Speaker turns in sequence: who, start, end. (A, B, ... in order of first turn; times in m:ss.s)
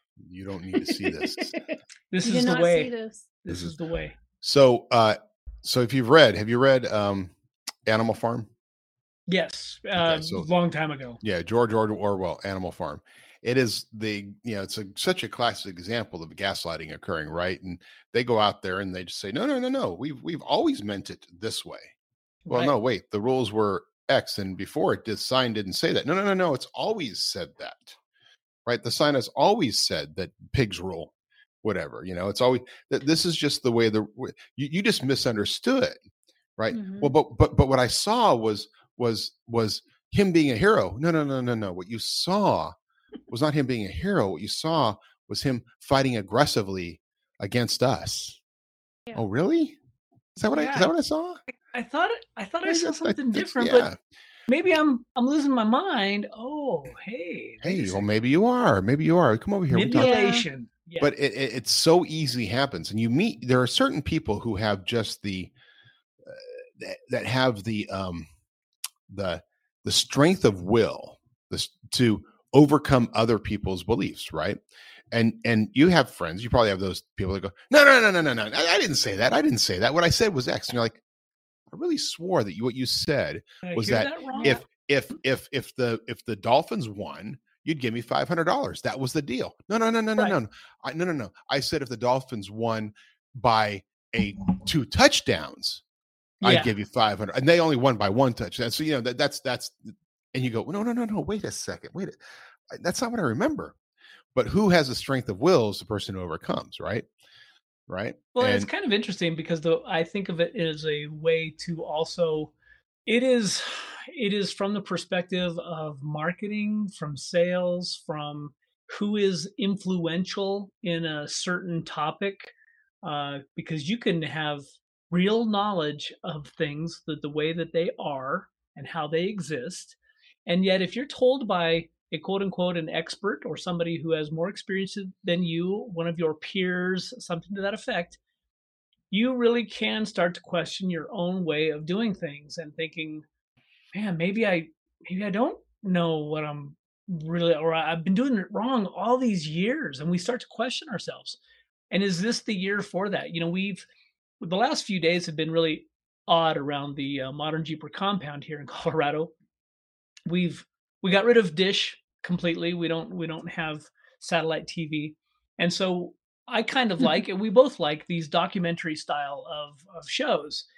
0:00.2-0:01.6 A
0:02.1-0:02.9 B
0:02.2-0:03.3 C
0:03.4-0:04.2 B
0:04.4-0:07.3 A
0:07.9-0:08.5 A
0:09.3-0:11.2 B
0:10.0-0:10.5 A
0:11.2-0:21.9 A
0:22.5-0:22.8 B
0:22.5-0:28.0 A
0:28.7-0:31.1 A
0:31.6-0:36.0 A
0:36.6-0:42.7 A
0:36.7-0:37.1 C
0:43.3-0:48.4 A
0:49.2-0:49.8 A
0:50.4-0:51.4 A
0:50.5-0:50.9 B
0:51.7-0:53.9 B
0:52.6-0:54.0 A
0:54.5-0:58.0 B
0:57.6-1:00.4 A
0:59.7-1:01.1 B
0:59.9-1:00.4 C
1:01.0-1:05.5 A
1:06.3-1:08.3 A
1:09.1-1:14.6 A
1:15.1-1:21.0 A
1:21.7-1:35.8 A
1:23.6-1:24.6 B
1:24.3-1:24.6 C
1:36.4-1:36.7 B
1:36.4-1:42.2 A
1:42.7-1:43.8 A
1:44.4-1:47.1 A
1:47.9-1:48.7 A
1:48.4-1:52.5 B
1:53.1-2:02.5 B
2:03.0-2:18.2 B
2:19.1-2:23.2 B
2:23.9-2:31.4 B
2:31.9-2:33.9 B
2:34.4-2:39.3 B
2:40.3-2:50.7 B